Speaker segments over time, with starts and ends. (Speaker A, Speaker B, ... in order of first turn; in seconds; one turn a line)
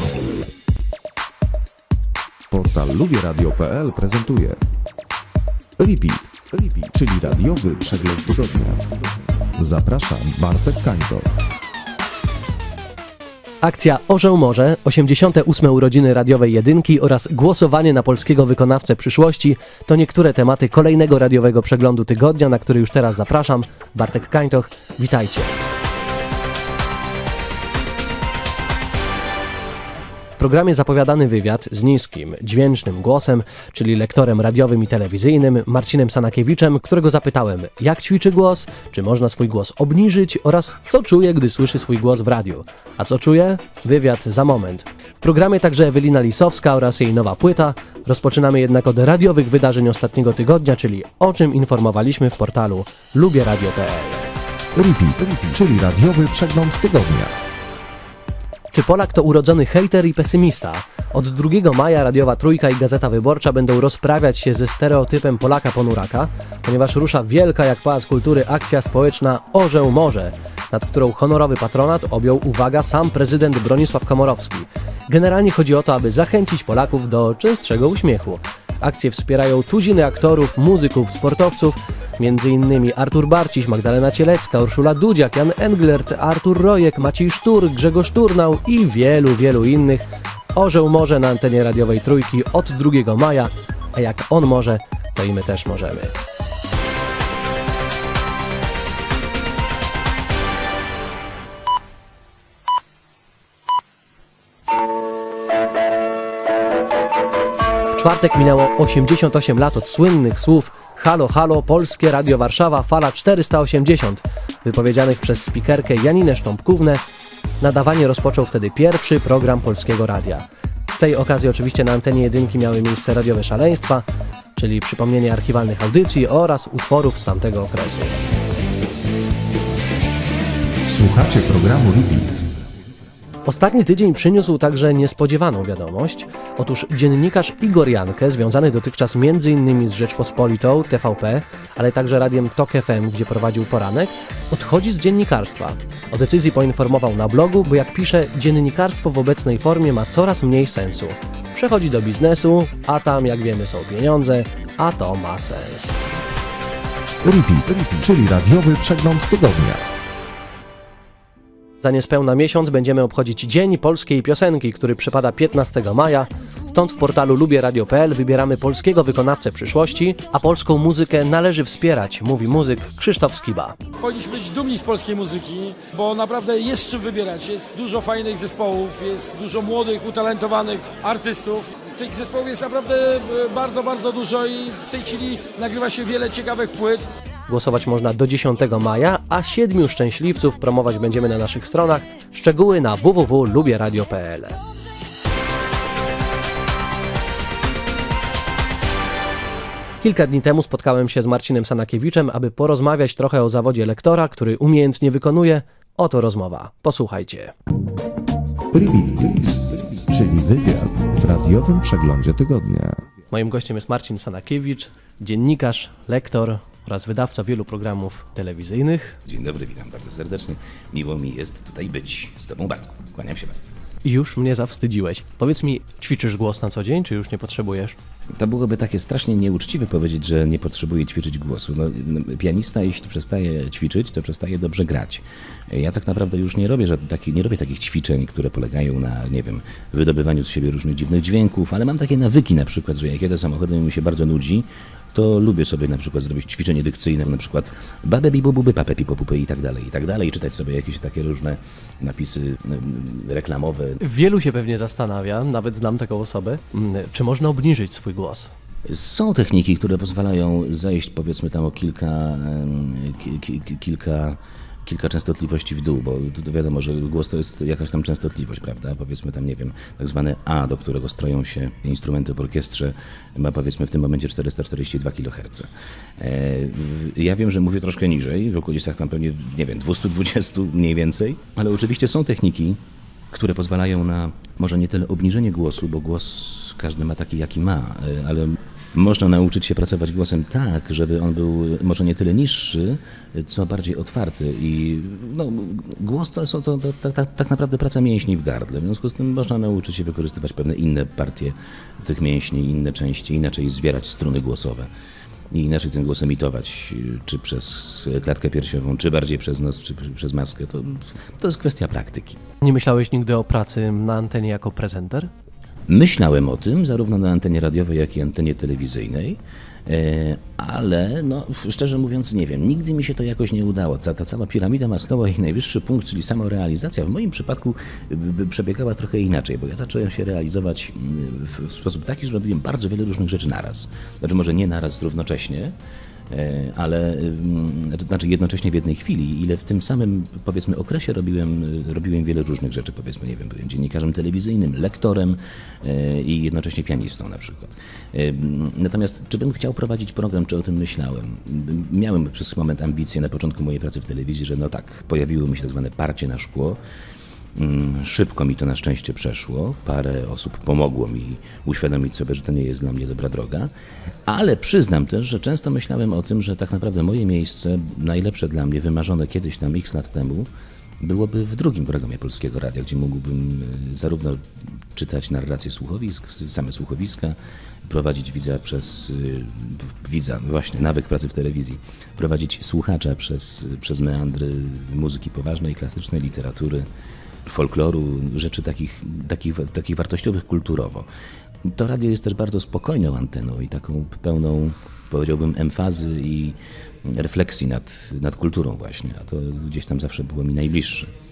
Speaker A: 2.5-4.6
Speaker A: 5.8-8.9
Speaker A: 9.6-11.3
Speaker B: 13.6-25.6
Speaker B: 30.4-54.3
Speaker A: 54.8-57.3
Speaker B: 58.7-96.2
Speaker B: 107.9-117.0
Speaker B: 117.6-128.2
Speaker A: 130.9-132.3
Speaker B: 133.4-156.0
Speaker A: 157.2-159.8
Speaker B: 161.8-173.8
Speaker C: 174.0-187.1
Speaker B: 187.5-194.6
Speaker B: 200.0-207.5
Speaker A: 208.7-213.0
Speaker B: 213.3-219.2
Speaker D: 219.3-223.7
Speaker B: 224.0-228.0
Speaker D: 228.4-254.0
Speaker B: 254.0-258.5
Speaker D: 258.9-282.8
Speaker D: 283.3-304.9
Speaker D: 305.5-312.4
Speaker B: 312.6-315.3
Speaker D: 315.9-335.8
Speaker D: 336.3-356.8
Speaker D: 357.6-363.7
Speaker D: 364.3-370.5
Speaker D: 371.0-386.9
Speaker D: 387.4-391.1
Speaker D: 391.6-401.1